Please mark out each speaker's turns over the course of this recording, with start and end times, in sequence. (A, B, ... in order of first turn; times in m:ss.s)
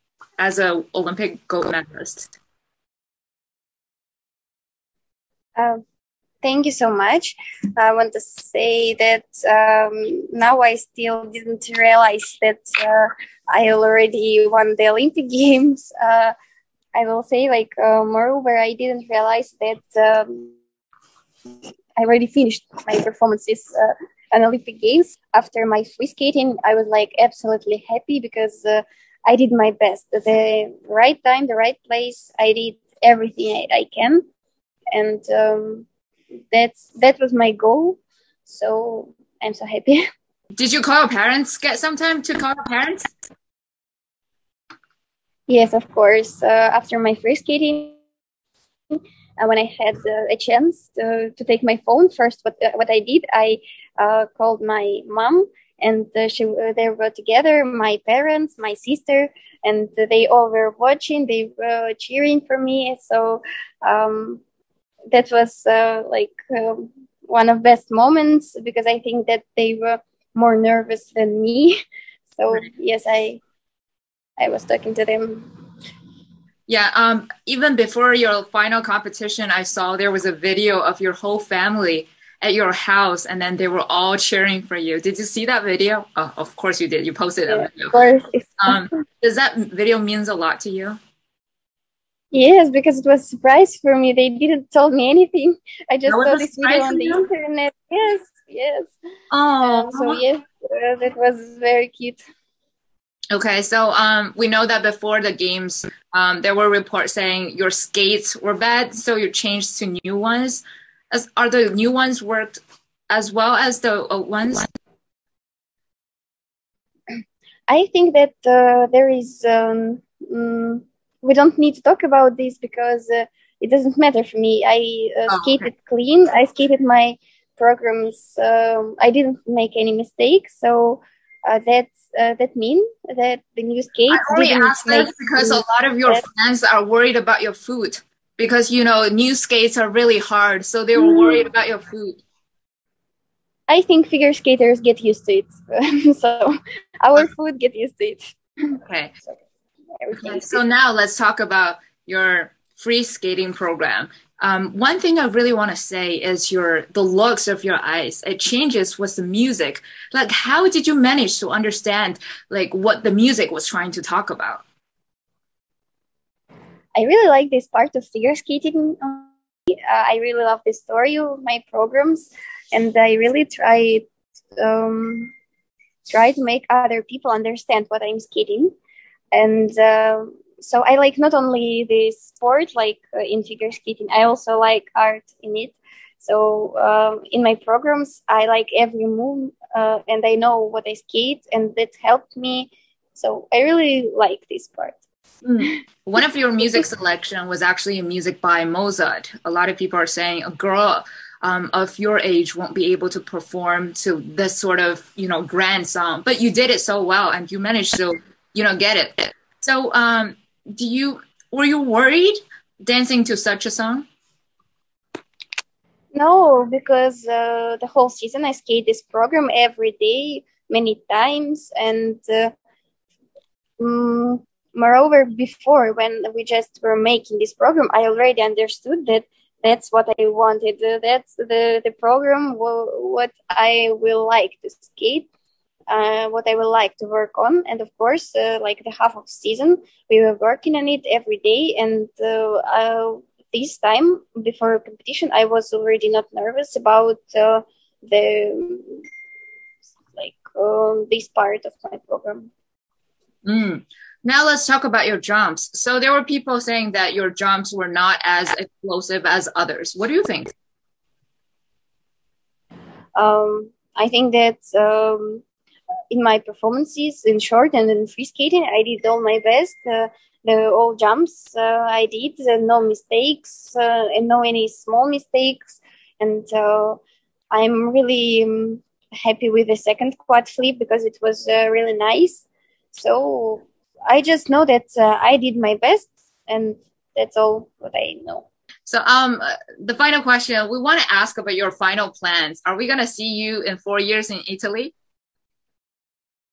0:00.4-0:02.3 A
0:05.6-0:05.8 B
0:06.4-0:16.3 B
0:16.9-0:20.5 B
0:22.0-0:34.2 B
0:34.9-0:35.9 B
0:36.5-0:40.0 B
0:40.6-0:43.1 A
0:45.5-0:48.0 B
0:48.9-1:04.4 B
1:05.1-1:11.8 B
1:12.3-1:13.4 B
1:14.4-1:15.5 B
1:16.7-1:28.0 A
1:27.5-1:28.9 B
1:28.6-1:31.0 A
1:32.3-1:39.0 B
1:36.1-1:37.3 A
1:39.3-1:40.2 A
1:39.6-1:42.2 B
1:43.3-1:54.7 A
1:57.7-2:16.2 B
2:05.3-2:05.7 A
2:14.1-2:22.2 A
2:21.0-2:21.5 B
2:23.7-2:29.4 B
2:28.8-2:29.1 A
2:30.0-2:30.6 B
2:30.2-2:44.6 A
2:47.0-2:49.3 B
2:49.9-2:55.3 B
2:56.1-2:58.8 B
2:59.3-3:15.0 B
3:15.4-3:34.1 A
3:36.1-3:42.5 B
3:43.8-3:55.3 B
3:55.9-4:09.0 B
4:10.1-4:12.5 B
4:13.4-4:20.5 A
4:23.2-4:25.4 B
4:26.1-4:37.0 B
4:37.5-4:48.5 B
4:48.9-4:54.9 A